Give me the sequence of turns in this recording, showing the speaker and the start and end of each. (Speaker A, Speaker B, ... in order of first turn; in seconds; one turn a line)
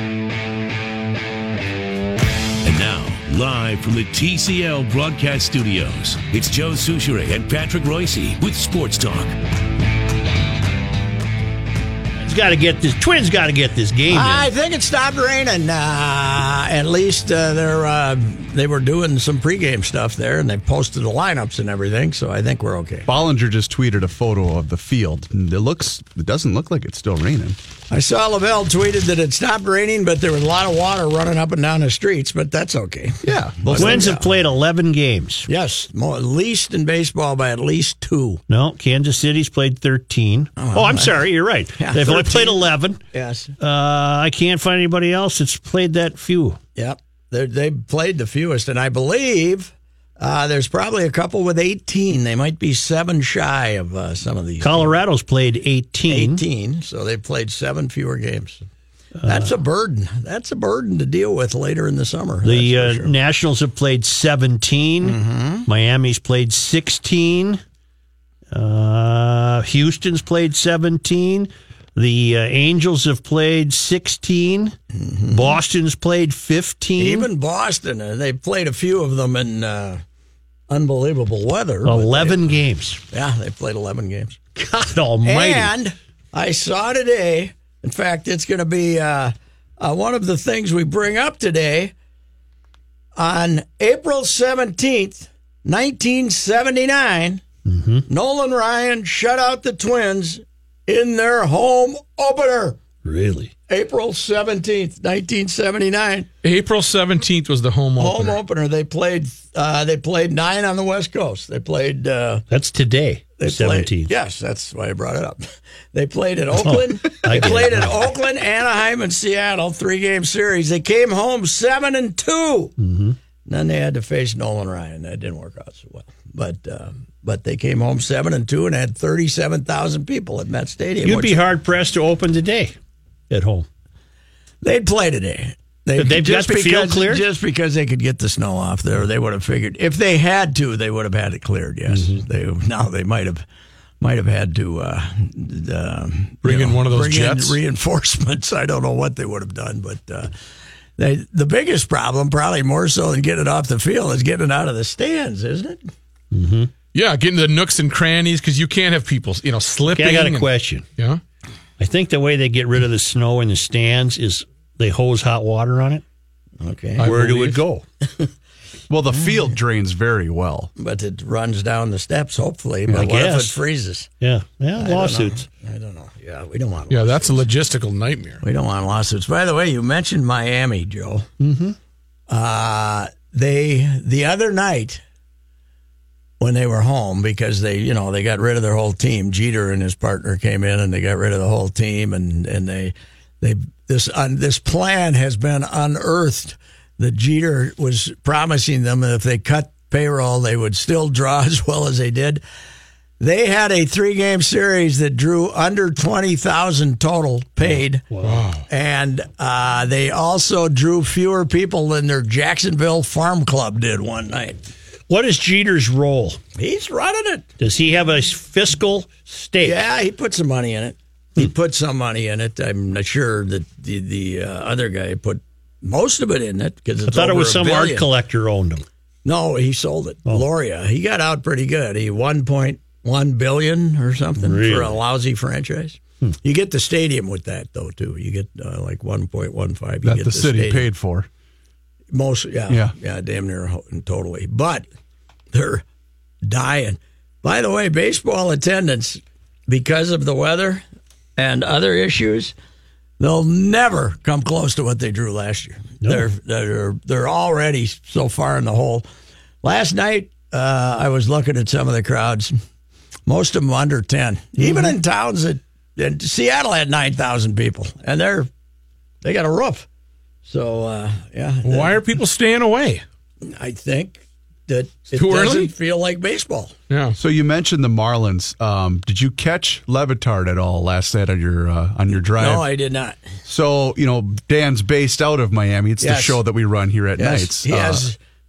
Speaker A: 2.6-9.4
Speaker B: 12.2-14.5
Speaker C: 14.1-23.1
Speaker D: 23.1-27.6
Speaker C: 27.9-34.3
Speaker D: 33.2-34.0
Speaker B: 33.8-35.5
Speaker C: 35.5-38.4
Speaker B: 38.5-43.0
Speaker C: 40.6-41.2
Speaker C: 41.8-43.5
Speaker B: 43.6-46.6
Speaker C: 46.8-54.9
Speaker B: 54.6-56.4
Speaker C: 56.1-58.6
Speaker B: 59.2-59.5
Speaker C: 59.3-63.1
Speaker B: 62.4-67.6
Speaker C: 65.0-65.7
Speaker B: 68.5-74.8
Speaker C: 74.9-75.6
Speaker B: 75.3-77.3
Speaker C: 77.0-80.0
Speaker C: 80.7-82.5
Speaker B: 81.9-83.0
Speaker C: 83.1-84.4
Speaker B: 84.6-85.7
Speaker C: 85.2-91.9
Speaker C: 93.2-97.4
Speaker B: 97.7-98.1
Speaker C: 98.1-102.8
Speaker B: 103.0-103.5
Speaker C: 103.7-106.3
Speaker E: 106.4-108.4
Speaker C: 108.0-112.4
Speaker B: 112.5-114.1
Speaker C: 113.4-122.7
Speaker B: 116.6-118.1
Speaker B: 122.8-123.2
Speaker C: 123.5-131.4
Speaker B: 131.0-132.8
Speaker B: 133.3-133.7
Speaker C: 134.6-143.4
Speaker B: 136.0-137.2
Speaker B: 141.9-142.2
Speaker C: 144.0-150.3
Speaker E: 146.4-147.6
Speaker C: 151.0-155.8
Speaker B: 156.3-156.7
Speaker E: 156.9-161.2
Speaker B: 159.9-160.8
Speaker B: 161.8-166.0
Speaker C: 166.6-167.1
Speaker E: 167.0-167.6
Speaker B: 167.0-167.8
Speaker C: 168.0-168.3
Speaker D: 168.9-170.7
Speaker C: 170.8-174.1
Speaker B: 172.9-173.6
Speaker B: 174.2-175.4
Speaker C: 174.8-177.4
Speaker E: 176.9-178.4
Speaker C: 178.4-181.3
Speaker B: 181.4-181.8
Speaker C: 182.3-185.0
Speaker C: 186.4-202.4
Speaker C: 203.2-208.1
Speaker B: 208.1-208.4
Speaker E: 208.2-208.6
Speaker C: 208.7-214.6
Speaker B: 215.1-216.4
Speaker C: 216.6-217.5
Speaker B: 217.6-219.8
Speaker C: 219.6-228.1
Speaker B: 227.1-228.8
Speaker C: 229.2-240.9
Speaker B: 234.4-235.0
Speaker D: 240.0-241.3
Speaker C: 242.1-244.9
Speaker D: 242.7-242.9
Speaker C: 245.5-245.8
Speaker C: 246.4-250.8
Speaker C: 251.4-252.5
Speaker C: 253.2-259.1
Speaker C: 259.6-262.5
Speaker C: 263.3-268.5
Speaker B: 264.6-264.9
Speaker C: 269.2-269.9
Speaker C: 270.4-272.0
Speaker E: 271.6-273.0
Speaker C: 273.4-276.8
Speaker E: 275.1-275.7
Speaker E: 276.9-277.2
Speaker D: 277.2-282.7
Speaker C: 282.4-283.2
Speaker D: 283.5-288.1
Speaker C: 286.0-286.4
Speaker C: 287.2-288.2